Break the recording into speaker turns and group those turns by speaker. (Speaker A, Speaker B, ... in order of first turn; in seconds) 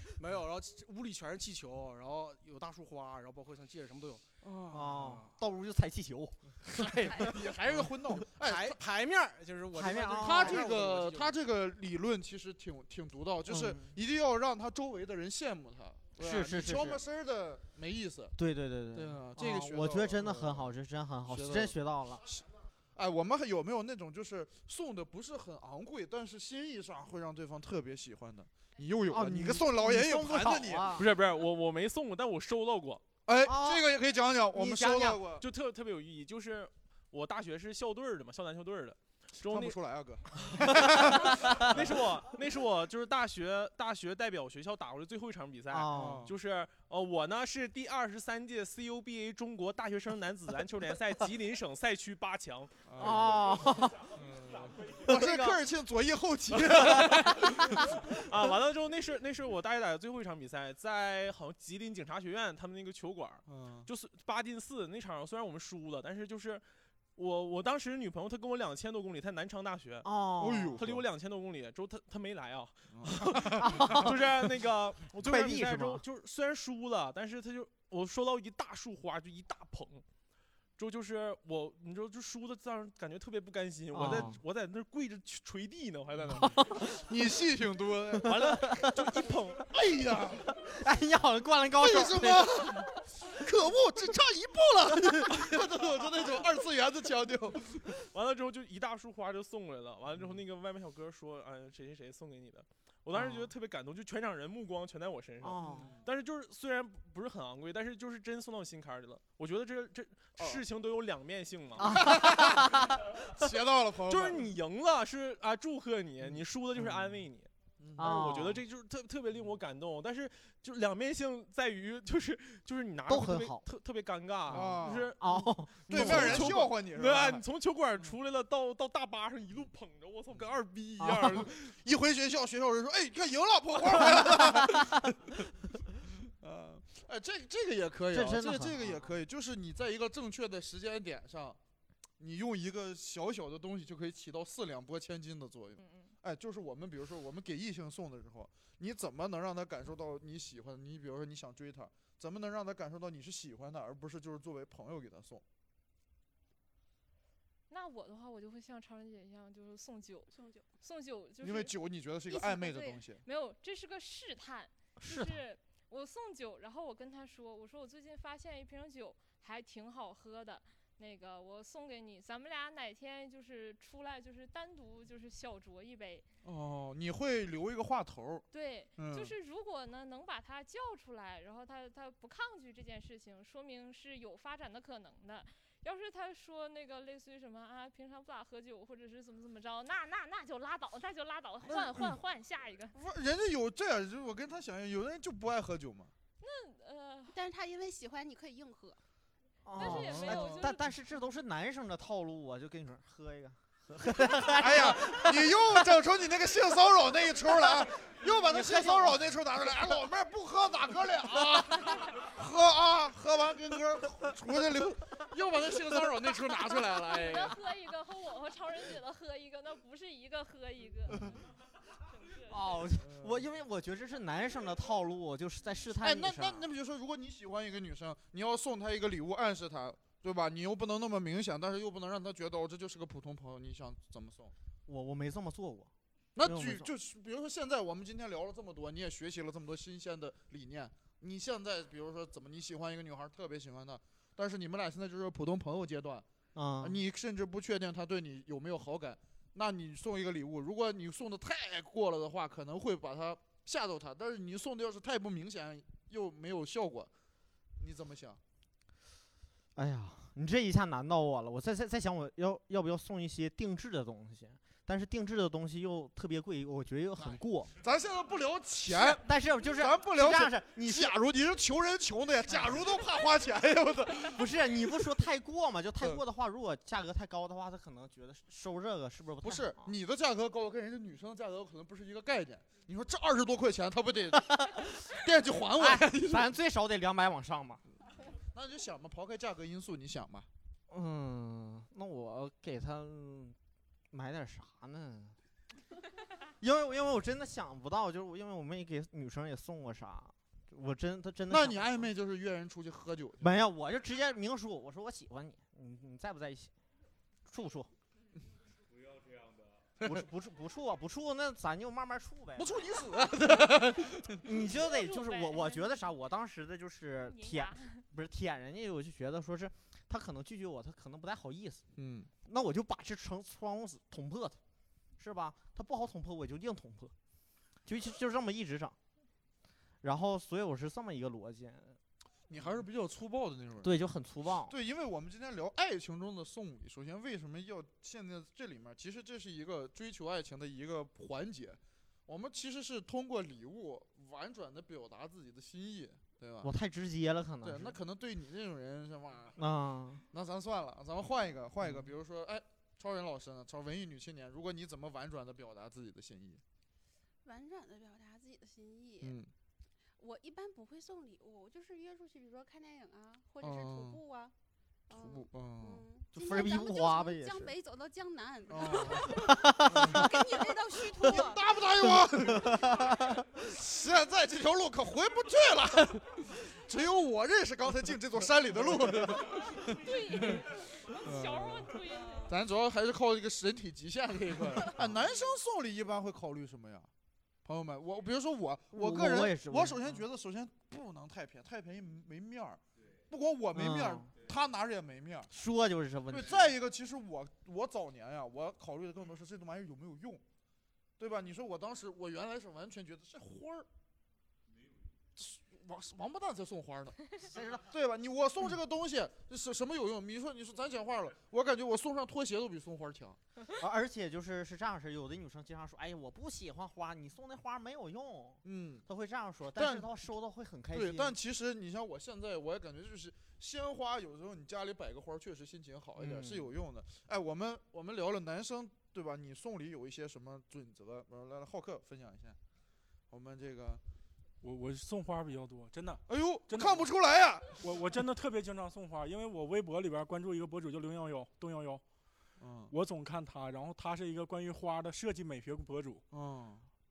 Speaker A: 0.2-4.2, 5.0-5.3, 6.9-7.3, 8.4-11.4
Speaker B: 4.4-5.1, 6.7-8.8, 10.2-18.4, 18.9-20.7, 21.3-31.0, 33.3-35.5, 39.4-41.8, 45.9-46.3, 52.9-58.0, 63.5-63.9, 70.4-71.0, 72.9-74.1, 87.0-88.8, 89.6-90.6, 91.8-98.0, 105.6-106.0, 110.4-110.6, 111.8-114.5, 117.8-118.2, 124.5-125.2, 125.9-127.4, 131.2-135.1, 136.3-141.6, 142.2-155.4, 161.4-163.2, 176.4-179.3, 191.6-192.2, 192.9-196.1, 199.8-200.6, 204.4-217.6, 223.0-223.5, 226.0-234.5, 236.4-246.3, 246.8-257.1, 257.8-258.4, 267.2-274.5, 279.4-286.5, 288.5-290.5, 301.5-303.6, 312.6-314.4, 321.9-322.3, 332.5-333.9, 334.7-346.7, 347.6-349.6, 350.3-356.6, 359.2-359.5, 363.6-364.2, 365.1-366.0, 368.7-370.4, 371.2-380.6, 381.2-387.1, 387.6-395.5, 396.3-400.4, 401.2-403.9, 405.4-413.4, 418.6-419.1, 419.7-420.1, 420.9-432.6, 433.3-434.0, 436.3-438.0, 442.6-442.9, 446.3-446.9
Speaker C: 4.7-6.6, 9.7-10.6, 13.5-13.9, 16.2-17.0, 18.4-22.3, 29.1-31.1, 33.5-33.9, 34.5-35.2, 45.7-46.3, 53.0-54.1, 55.0-55.6, 70.0-70.8, 73.6-74.2, 75.2-76.0, 83.9-84.4, 86.3-87.1, 88.2-88.9, 90.6-93.0, 103.1-103.5, 105.4-106.0, 111.8-113.0, 118.0-118.6, 123.1-123.6, 124.5-126.6, 131.0-131.4, 134.4-134.8, 138.1-139.1, 165.0-165.4, 199.6-205.5, 208.2-209.2, 222.5-226.7, 234.9-236.9, 246.6-247.0, 259.8-267.7, 268.9-271.1, 272.5-272.8, 274.4-279.9, 285.8-287.8, 290.9-293.6, 294.1-295.4, 296.6-302.1, 303.4-306.7, 307.5-307.9, 310.0-313.0, 314.4-321.8, 322.4-324.6, 325.2-327.1, 327.9-329.0, 330.0-332.0, 333.8-334.7, 346.6-348.0, 349.6-350.2, 366.3-367.7, 369.3-371.4, 372.0-373.4, 388.9-390.2, 393.7-394.3, 395.5-396.7, 407.5-407.8, 413.8-421.4, 426.2-426.7
Speaker D: 30.9-33.0, 35.4-39.8, 40.5-52.7, 56.9-66.6, 67.2-70.1, 70.8-80.0, 80.8-86.8, 88.2-89.7, 98.1-112.1, 114.1-131.7
Speaker E: 145.8-146.1, 157.7-161.7, 163.2-176.3, 178.5-192.9, 196.4-197.4, 199.7-201.0, 216.9-221.4, 222.1-222.8, 314.7-316.1, 317.2-318.1, 379.4-382.6
Speaker F: 160.3-160.7, 162.3-163.0, 197.3-199.0, 357.4-359.4, 360.2-364.5, 365.1-371.7
Speaker G: 434.6-437.1, 437.8-442.0, 442.9-446.2